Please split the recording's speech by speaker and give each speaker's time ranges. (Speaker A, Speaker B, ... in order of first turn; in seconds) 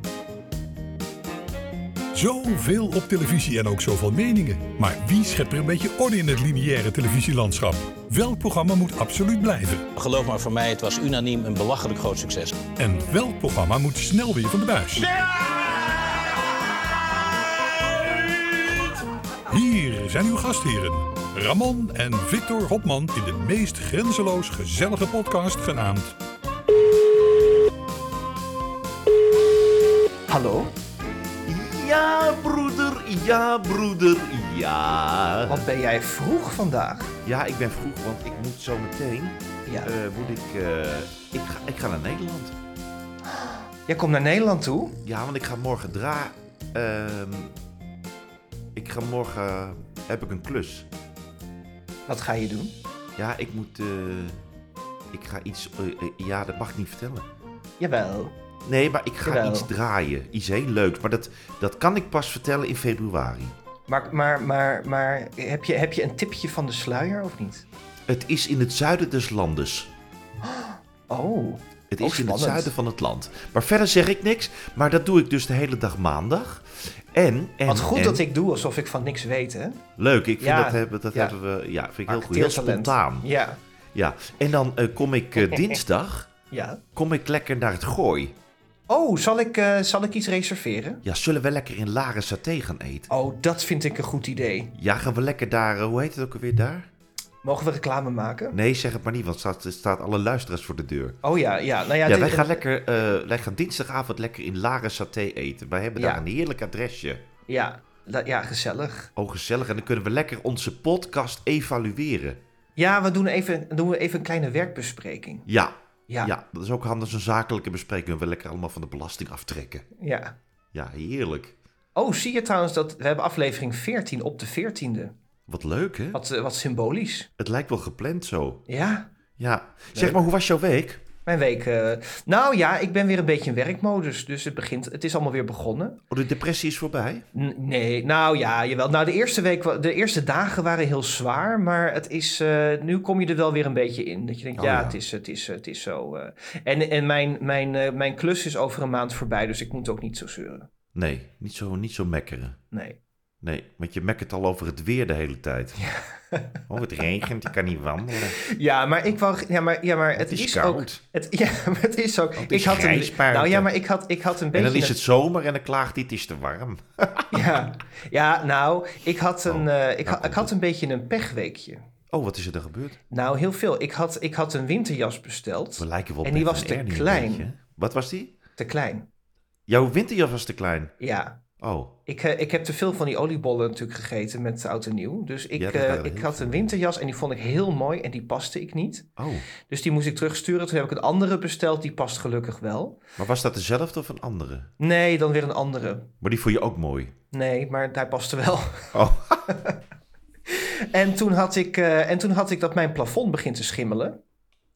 Speaker A: 2.1-9.9, 12.8-15.2, 19.5-26.1
Speaker B: 10.0-12.6
Speaker C: 30.3-30.8, 35.5-37.1, 43.3-45.0, 52.1-52.8, 57.8-58.4, 59.2-59.7, 63.9-67.6, 70.4-72.7, 77.7-79.8, 80.4-81.3, 82.1-83.6, 85.4-85.8, 86.5-86.8, 88.9-91.0, 93.1-94.7, 97.4-98.5, 101.2-102.6, 106.0-106.2, 107.5-109.1, 112.8-115.5, 120.0-120.3, 121.9-125.1, 126.1-127.3, 128.7-129.1, 129.9-130.2, 131.2-136.0, 137.3-150.7, 152.7-153.0, 155.8-156.6, 158.4-164.9, 167.3-171.8, 173.1-177.5, 178.6-179.1, 181.0-181.4, 182.1-193.0, 194.8-196.1, 197.3-199.8, 200.5-204.2
Speaker D: 31.4-35.6, 37.2-42.5, 45.0-47.5, 48.8-50.9, 53.2-54.4, 55.1-57.3, 58.6-63.5, 68.1-69.9, 71.9-78.2, 80.0-83.3, 83.9-86.3, 86.9-88.3, 91.0-93.1, 94.7-96.9, 98.5-101.2, 102.0-107.2, 109.2-112.4, 115.5-119.9, 120.7-121.5, 125.5-126.2, 127.4-128.6, 129.4-131.0, 136.1-137.2, 144.6-145.0, 150.9-152.6, 153.4-155.8, 156.7-158.4, 160.2-161.0, 162.4-163.7, 164.5-167.4, 169.5-170.5, 172.1-173.0, 175.8-178.3, 179.7-180.9, 181.6-181.9, 185.5-186.7, 189.2-189.5, 193.2-194.7, 196.2-197.1, 198.9-199.5